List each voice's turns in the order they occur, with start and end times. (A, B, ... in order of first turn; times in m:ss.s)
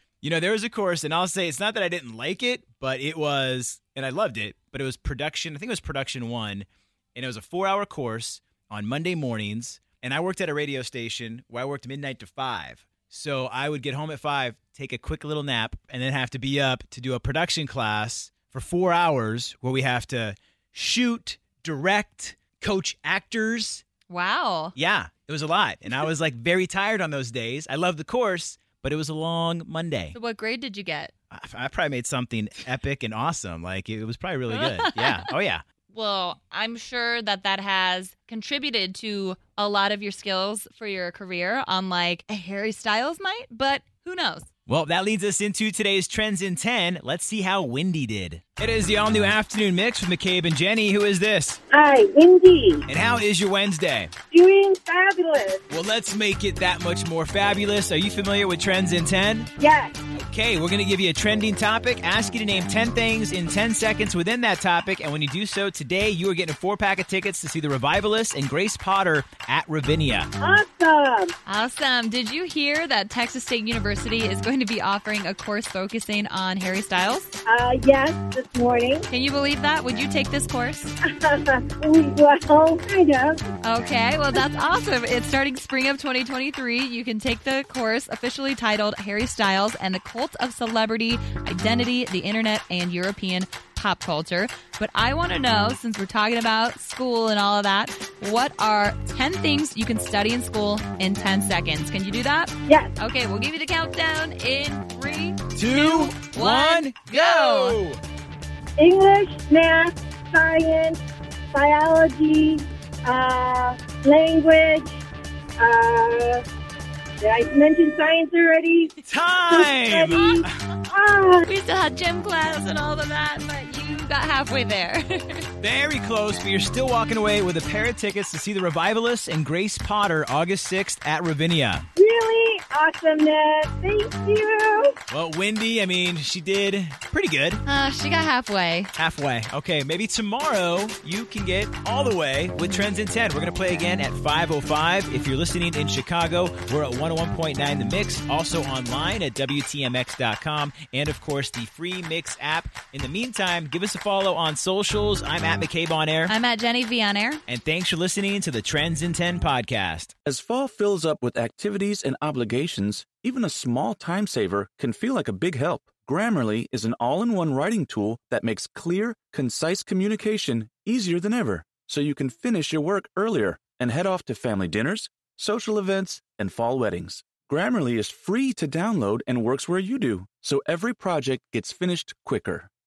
0:00.2-0:23.8 A
0:24.1-0:24.8 B
0:24.8-0:30.2 A
0:30.1-0:31.1 B
0:31.3-0:35.6 A
0:34.5-0:35.3 B
0:35.9-0:44.5 B
0:44.7-0:51.6 A
0:51.7-0:52.8 C
0:52.9-0:54.1 A
0:54.3-0:55.6 C
0:55.7-0:59.5 A
0:59.6-1:00.0 C
1:00.2-1:10.3 A
1:10.4-1:11.3 C
1:11.5-1:17.3 B
1:17.5-1:19.1 C
1:19.1-1:20.9 B
1:21.1-1:23.4 C
1:23.6-1:47.8 B
1:42.7-1:42.9 C
1:45.6-1:48.0 A
1:48.8-1:51.0 C
1:51.5-1:55.0 C
1:55.6-1:56.4 C
1:57.2-1:58.9 C
1:59.1-2:00.6 A
1:59.5-2:01.5 C
2:00.1-2:00.4 B
2:01.5-2:05.5 B
2:05.6-2:11.9 A
2:12.0-2:15.0 C
2:15.1-2:17.6 A
2:17.6-2:18.9 B
2:19.0-2:36.4 A
2:36.3-2:37.4 B
2:37.5-2:40.1 A
2:40.2-3:02.7 D